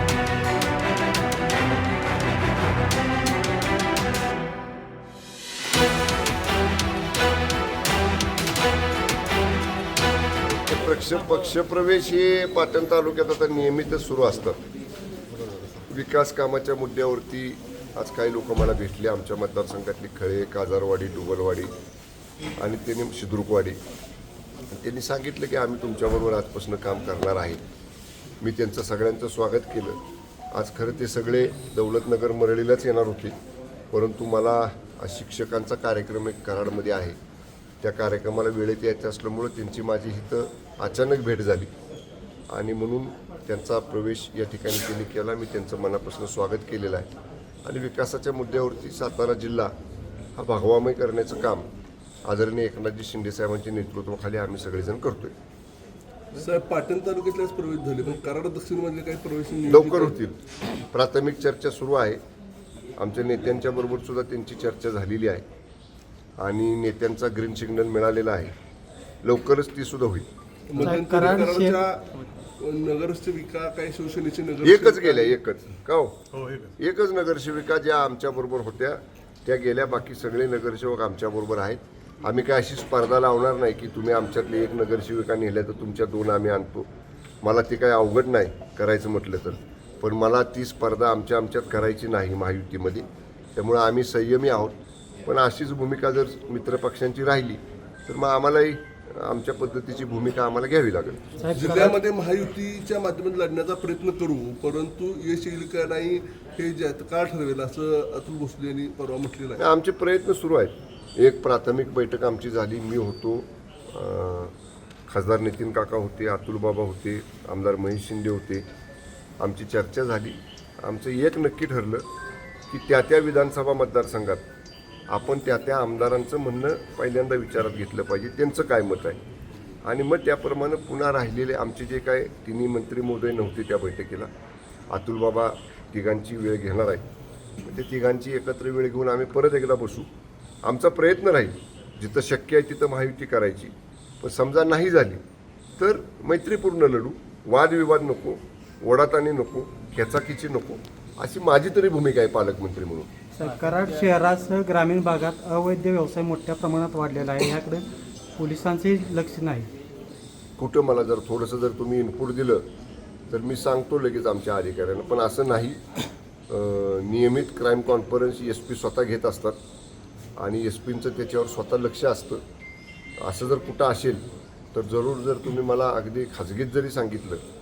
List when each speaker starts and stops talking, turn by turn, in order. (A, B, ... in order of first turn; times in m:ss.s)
0:10.7-0:14.6 A
0:15.9-0:21.7 A
0:22.6-0:23.8 A
0:24.7-0:27.6 A
0:28.4-0:30.0 A
0:30.5-0:33.4 A
0:33.9-0:37.2 A
0:37.8-0:41.7 A
0:42.5-0:47.1 A
0:47.6-0:49.7 A
0:50.3-0:51.7 A
0:52.2-0:55.3 A
0:56.3-1:00.2 B
0:59.7-1:00.4 A
1:00.9-1:02.2 A
1:03.0-1:05.4 A
1:06.4-1:08.5 A
1:09.2-1:10.3 A
1:10.7-1:15.4 B
1:10.8-1:11.8 C
1:14.6-1:16.2 A
1:16.8-1:26.9 A
1:27.4-1:41.2 A
1:41.4-1:42.0 C
1:41.5-1:49.6 B
1:49.6-1:54.5 A
1:55.1-1:58.6 A
1:59.4-2:02.1 A
2:02.7-2:04.4 A
2:05.1-2:09.2 A
2:09.8-2:14.3 A
2:14.9-2:17.0 A
2:17.6-2:20.1 A
2:20.6-2:25.2 A
2:25.8-2:33.1 A
2:33.4-2:39.7 C
2:40.6-2:42.6 A
2:43.3-2:45.8 A
2:46.5-2:49.6 A
2:50.4-2:52.4 A
2:53.2-2:57.4 A